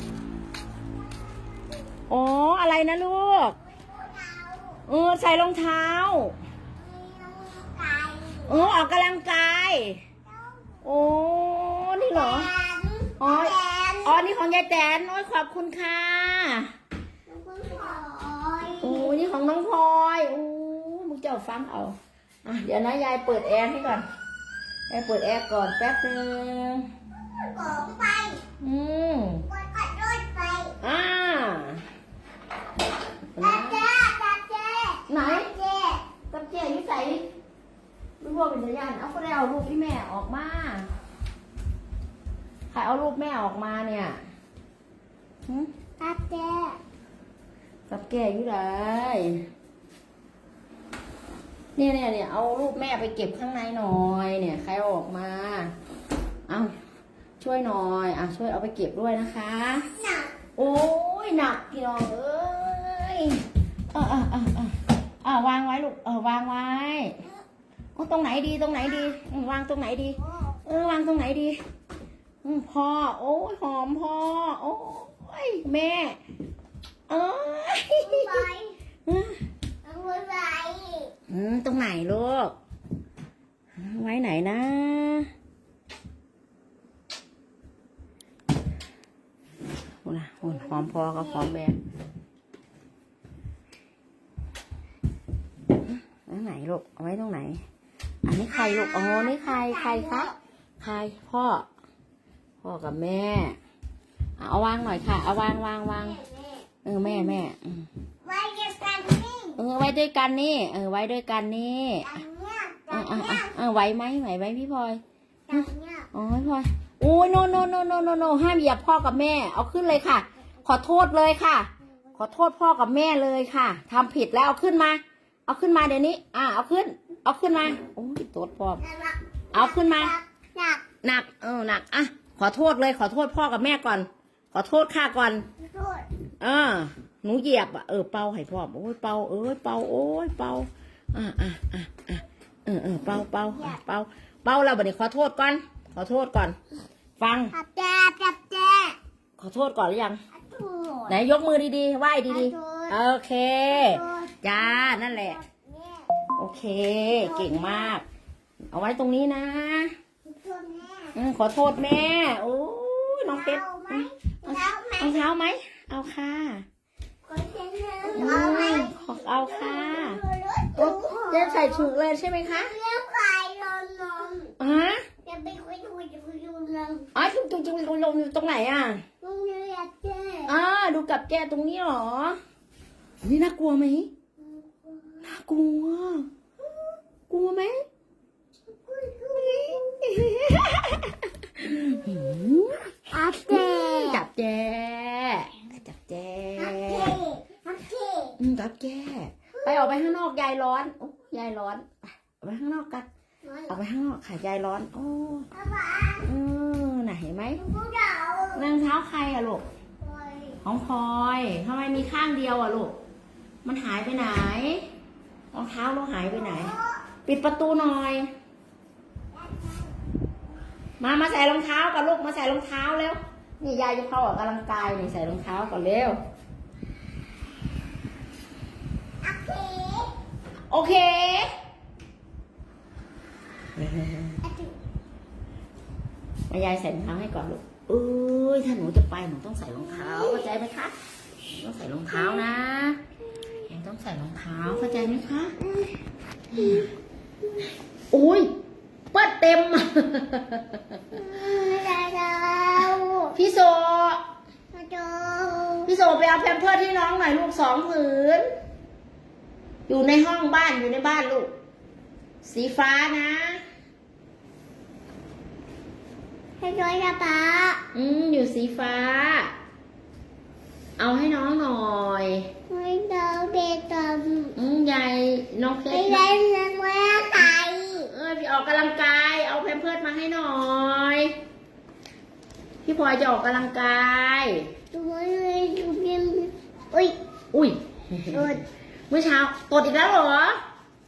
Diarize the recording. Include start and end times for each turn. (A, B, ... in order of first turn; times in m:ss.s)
0:02.1-0:03.6 A
0:03.7-0:04.8 B
0:04.9-0:06.4 A
0:06.8-0:08.8 B
0:08.5-0:10.0 A
0:10.3-0:10.7 B
0:10.8-0:12.5 A
0:12.0-0:14.2 B
0:13.2-0:16.7 A
0:17.3-0:19.1 B
0:18.8-0:24.1 A
0:24.9-0:26.9 A
0:27.2-0:28.4 B
0:28.6-0:29.5 A
0:29.5-0:30.8 B
0:30.8-0:31.9 A
0:33.3-0:33.8 A
0:33.4-0:36.1 B
0:35.1-0:35.5 A
0:36.3-0:37.3 A
0:38.2-0:40.9 A
0:42.7-0:44.2 A
0:46.0-0:46.8 B
0:47.9-0:49.5 A
0:51.8-0:55.7 A
0:56.5-0:56.7 A
0:57.4-0:59.9 A
0:59.9-1:00.3 B
1:00.6-1:07.2 A
1:08.0-1:11.6 A
1:10.2-1:10.6 B
1:12.4-1:16.2 A
1:17.1-1:18.5 A
1:18.0-1:18.8 B
1:19.1-1:19.4 A
1:19.8-1:21.1 B
1:21.3-1:22.6 A
1:23.8-1:25.3 A
1:30.0-1:31.8 A
1:30.8-1:31.2 B
1:35.9-1:37.6 A
1:38.2-1:41.7 A
1:38.5-1:40.4 B
1:42.6-1:43.6 A
1:44.4-1:46.2 A
1:46.0-1:47.4 B
1:46.8-1:47.9 A
1:48.2-1:49.6 B
1:49.6-1:52.2 A
1:52.0-1:53.5 B
1:52.9-1:55.0 A
1:55.5-1:56.1 B
1:55.5-2:08.8 A
2:08.8-2:10.8 B
2:09.5-2:10.2 A
2:11.0-2:15.5 A
2:15.6-2:16.1 B
2:16.4-2:26.6 A
2:27.2-2:27.6 A
2:27.5-2:29.0 B
2:29.4-2:30.2 A
2:30.3-2:31.2 B
2:31.1-2:35.4 A
2:32.3-2:33.0 B
2:33.7-2:36.1 B
2:36.4-2:38.0 A
2:37.2-2:38.0 B
2:38.7-2:39.9 A
2:40.3-2:41.2 B
2:41.2-2:46.7 A
2:43.3-2:45.2 B
2:47.2-2:51.9 B
2:48.1-2:50.2 A
2:50.8-2:52.7 A
2:52.4-2:54.5 B
2:54.6-2:55.1 A
2:55.2-2:57.1 B
2:57.1-2:59.0 A
2:59.2-3:00.6 B
3:00.5-3:02.4 A
3:03.2-3:04.1 A
3:04.4-3:05.2 B
3:05.2-3:06.3 A
3:07.3-3:07.8 A
3:08.9-3:10.0 B
3:09.3-3:17.2 A
3:13.1-3:14.2 B
3:16.6-3:18.4 B
3:18.4-3:21.9 A
3:22.4-3:23.1 A
3:23.4-3:23.8 B
3:23.7-3:25.5 A
3:25.5-3:26.3 B
3:26.2-3:27.6 A
3:27.6-3:28.7 B
3:28.6-3:29.6 A
3:30.0-3:30.6 B
3:30.6-3:33.0 A
3:33.6-3:34.9 A
3:35.5-3:36.7 A
3:36.4-3:37.0 B
3:37.2-3:38.3 A
3:39.3-3:40.0 B
3:41.0-3:46.2 A
3:49.2-3:50.1 B
3:50.7-3:51.5 A
3:53.8-3:54.4 A
3:54.4-3:54.7 B
3:56.5-4:00.9 A
4:00.0-4:00.4 B
4:01.5-4:03.0 A
4:02.1-4:02.4 B
4:03.7-4:05.6 A
4:05.7-4:05.9 B
4:06.5-4:06.8 A
4:06.6-4:06.9 B
4:08.1-4:08.5 A
4:09.1-4:11.2 A
4:11.1-4:13.4 B
4:13.3-4:14.2 A
4:14.7-4:15.9 B
4:15.9-4:18.4 A
4:19.9-4:21.5 A
4:22.4-4:23.6 A
4:26.6-4:27.8 B
4:27.9-4:29.5 A
4:31.0-4:32.5 A
4:32.7-4:34.6 B
4:34.6-4:36.4 A
4:35.9-4:38.1 B
4:38.1-4:41.4 A
4:42.8-4:44.7 A
4:44.9-4:47.2 B
4:47.5-4:48.5 A
4:48.3-4:48.6 B
4:49.1-4:50.6 A